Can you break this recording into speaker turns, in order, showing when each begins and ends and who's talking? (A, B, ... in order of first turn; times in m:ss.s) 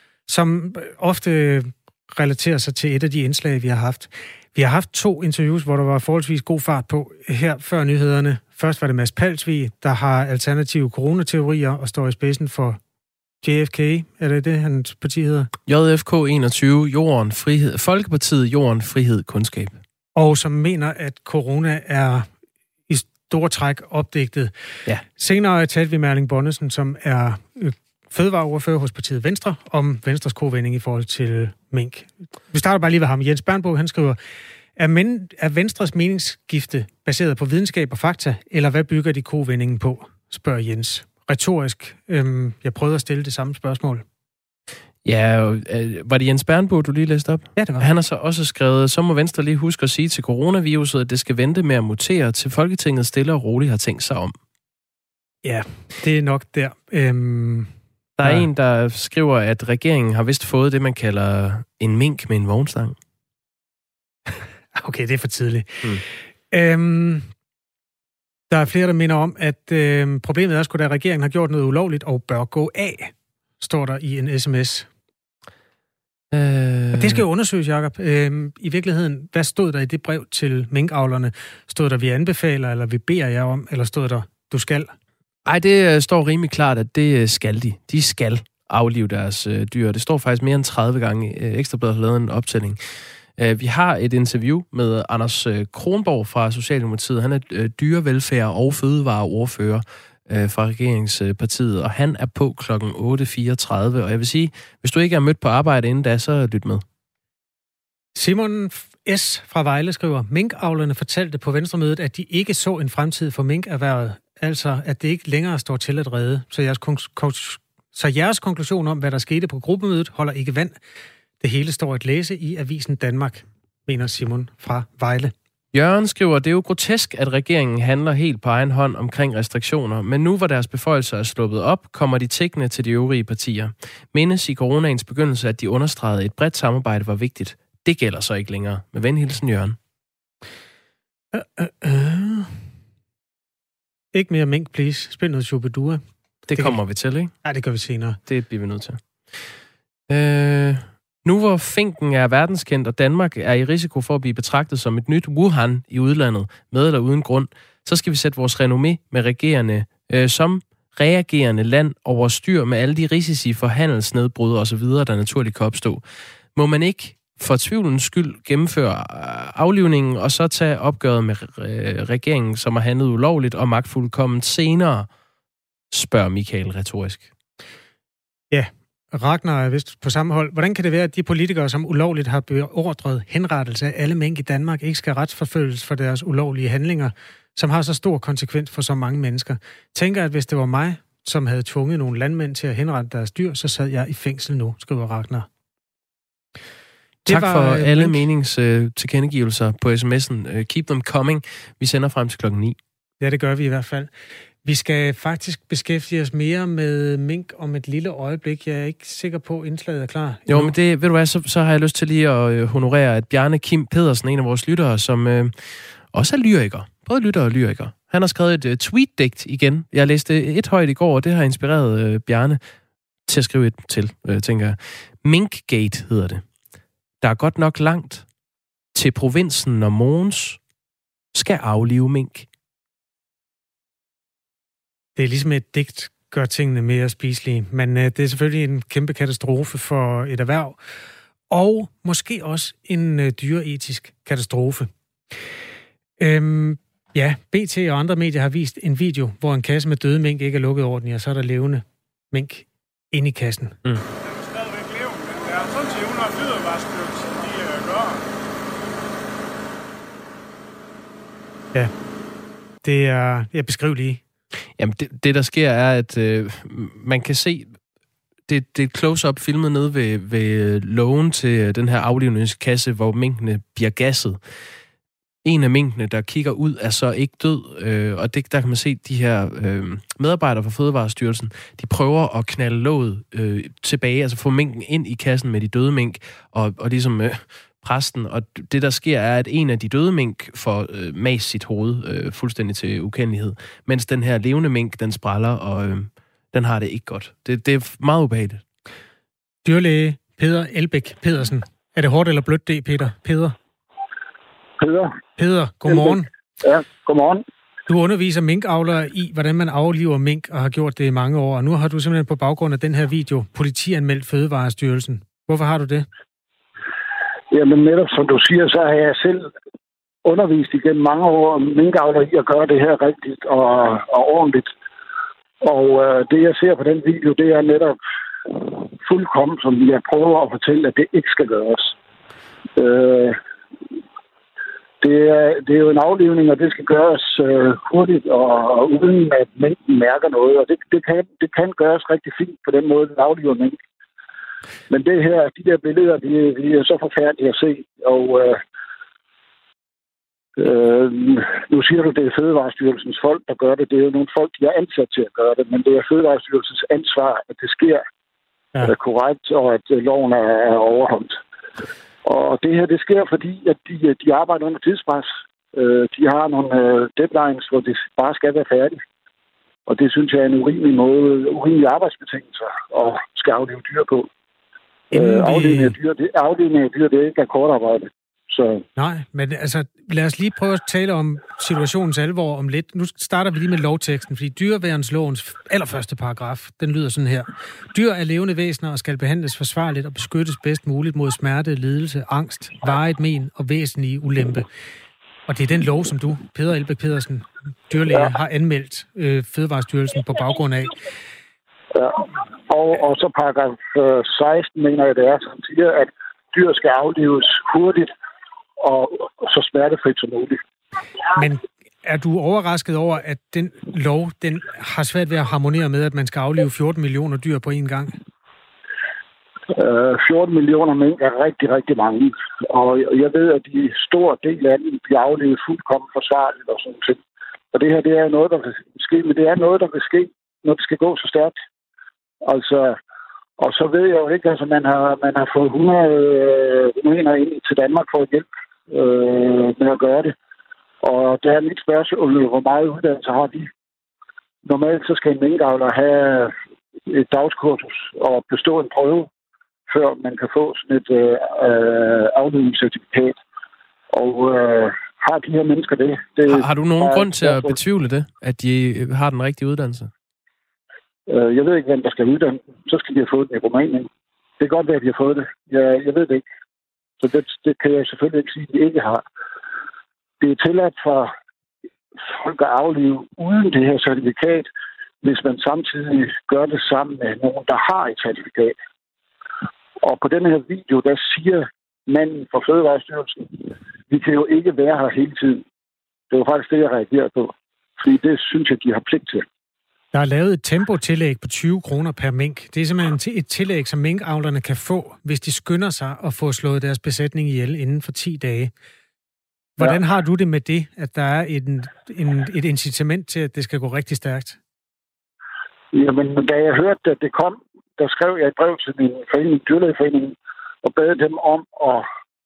0:00.3-0:12.8 A
0:13.4-0:15.5 A
0:15.7-0:19.8 B
0:20.2-0:22.3 A
0:22.9-0:34.2 A
0:34.8-0:44.0 A
0:45.0-0:54.4 B
0:47.6-0:47.9 A
0:55.4-0:58.5 A
0:58.2-1:03.0 B
1:04.8-1:07.3 A
1:08.5-1:14.9 A
1:16.3-1:17.2 B
1:16.9-1:24.9 A
1:25.4-1:46.8 B
1:48.2-2:00.8 A
2:01.4-2:05.3 A
2:05.7-2:19.8 B
2:21.3-2:22.7 A
2:24.1-2:26.0 A
2:26.5-2:27.3 B
2:27.4-2:28.2 A
2:28.3-2:29.5 B
2:30.1-2:46.0 B
2:46.6-2:55.1 B
2:55.9-2:57.3 B
2:58.5-3:15.5 A
3:17.3-3:18.2 A
3:17.3-3:22.8 B
3:23.2-3:24.1 A
3:24.6-3:30.7 A
3:30.5-3:42.6 B
3:43.3-3:46.4 B
3:47.2-3:48.2 B
3:48.9-3:50.6 B
3:51.3-3:52.5 B
3:55.2-4:00.8 A
4:01.5-4:04.9 A
4:06.2-4:13.8 A
4:22.8-4:24.2 A
4:24.8-4:27.8 B
4:28.5-4:34.4 B
4:35.4-4:58.6 B
4:59.6-5:03.6 A
5:04.8-5:05.2 C
5:05.4-5:06.3 A
5:05.9-5:07.4 C
5:07.9-5:16.1 A
5:17.5-5:19.5 C
5:20.2-5:24.7 C
5:25.6-5:32.0 C
5:32.8-5:33.4 C
5:35.0-5:43.8 C
5:44.9-5:48.6 C
5:50.6-5:58.0 C
5:58.8-6:01.4 C
6:02.2-6:09.0 C
6:09.9-6:14.3 C
6:15.1-6:16.0 A
6:15.1-6:18.8 C
6:19.0-6:34.7 A
6:35.5-6:41.0 A
6:41.9-6:48.1 C
6:48.8-6:50.6 C
6:51.4-6:58.2 A
6:59.8-7:07.2 C
7:07.7-7:11.5 C
7:12.4-7:13.0 C
7:13.6-7:20.3 C
7:21.0-7:23.7 C
7:24.6-7:26.5 C
7:27.1-7:29.3 C
7:29.9-7:33.4 C
7:34.1-7:37.8 C
7:36.5-7:40.1 B
7:41.3-7:46.4 C
7:47.2-7:49.2 C
7:50.4-7:51.3 C
7:52.2-7:54.7 C
7:55.2-7:58.8 C
8:00.0-8:05.6 C
8:06.3-8:09.5 C
8:10.1-8:18.7 A
8:19.8-8:24.6 A
8:25.9-8:32.0 C